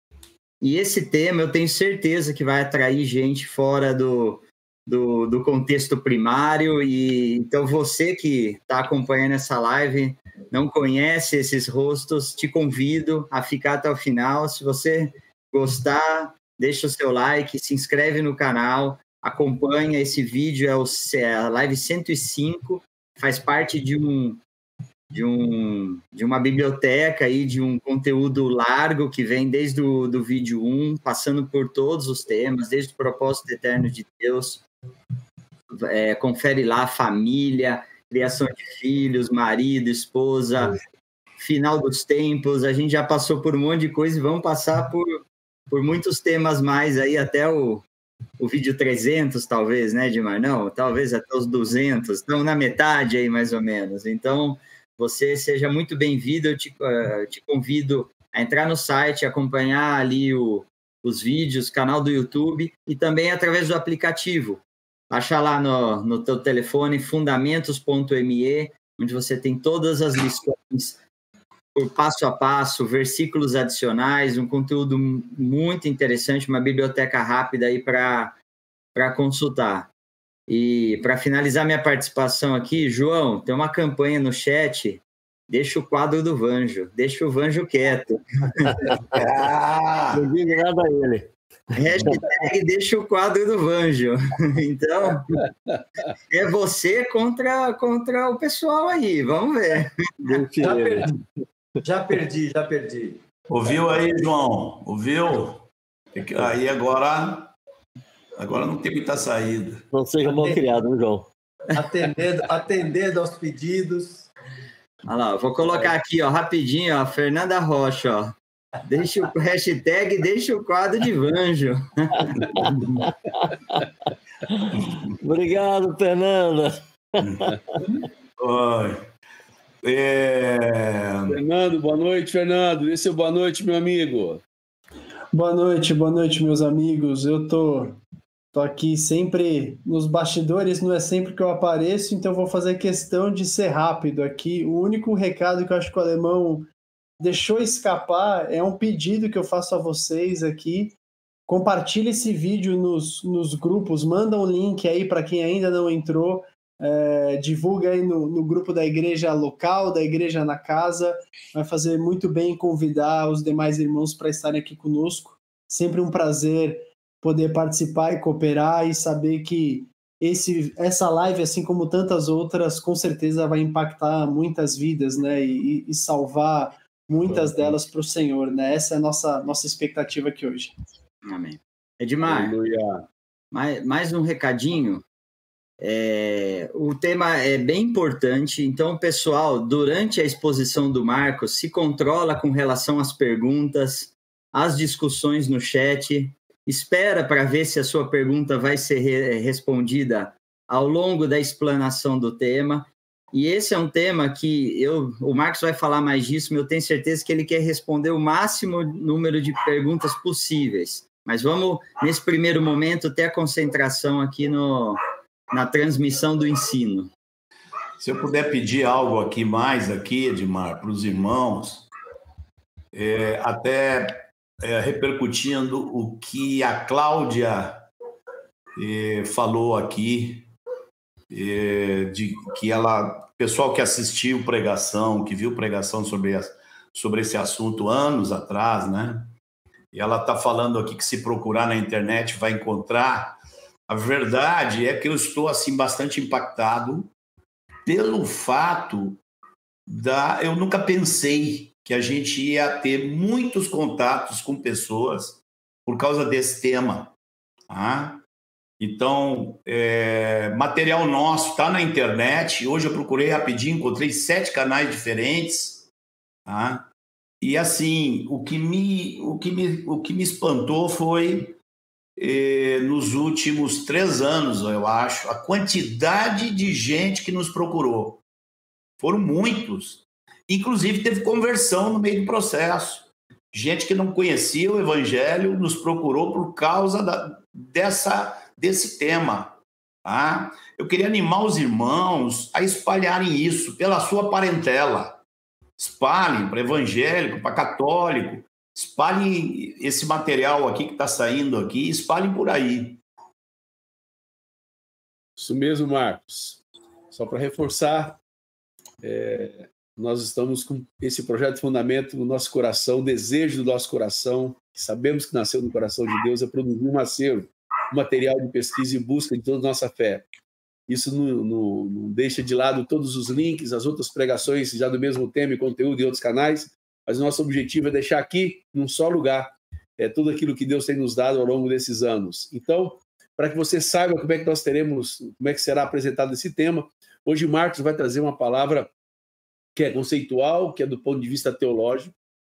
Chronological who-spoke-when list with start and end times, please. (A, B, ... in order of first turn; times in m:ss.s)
0:00.6-0:24.4 A
0:25.1-0:34.6 A
0:35.7-0:40.8 A
0:41.4-0:47.8 A
0:48.4-1:11.0 A
1:11.7-1:18.4 A
1:18.9-1:19.9 A
1:20.5-1:28.9 A
1:29.1-1:30.2 B
1:30.1-1:31.3 C
1:31.7-1:35.3 A
1:36.3-1:40.3 A
1:40.2-1:41.1 C
1:40.6-1:41.1 D
1:41.8-1:43.2 D
1:43.5-1:47.5 B
1:48.4-1:49.8 B
1:49.9-1:51.3 C
1:50.3-1:50.6 D
1:51.7-1:54.3 D
1:55.1-2:02.5 A
2:02.6-2:03.0 B
2:03.0-2:03.8 C
2:04.4-2:07.6 C
2:07.2-2:09.0 B
2:09.8-2:11.4 B
2:11.3-2:14.4 E
2:15.3-2:18.0 F
2:18.5-2:31.0 F
2:31.5-3:00.7 F
2:57.3-2:57.8 C
3:01.2-3:02.5 A
3:02.2-3:03.0 E
3:03.5-3:05.0 A
3:05.8-3:35.0 A
3:35.5-3:37.1 A
3:38.0-3:41.9 B
3:42.9-3:47.9 B
3:48.8-3:50.5 B
3:51.3-3:59.3 B
3:59.9-4:07.1 B
4:07.8-4:09.2 B
4:09.9-4:17.1 B
4:17.7-4:18.2 B
4:18.8-4:25.9 B
4:26.4-4:26.9 B
4:27.4-4:31.6 B
4:32.2-4:38.2 B
4:39.0-4:55.2 B
4:55.8-5:03.0 B
5:05.4-5:08.2 E
5:09.0-5:20.3 E
5:20.9-5:38.9 E
5:39.7-5:42.1 E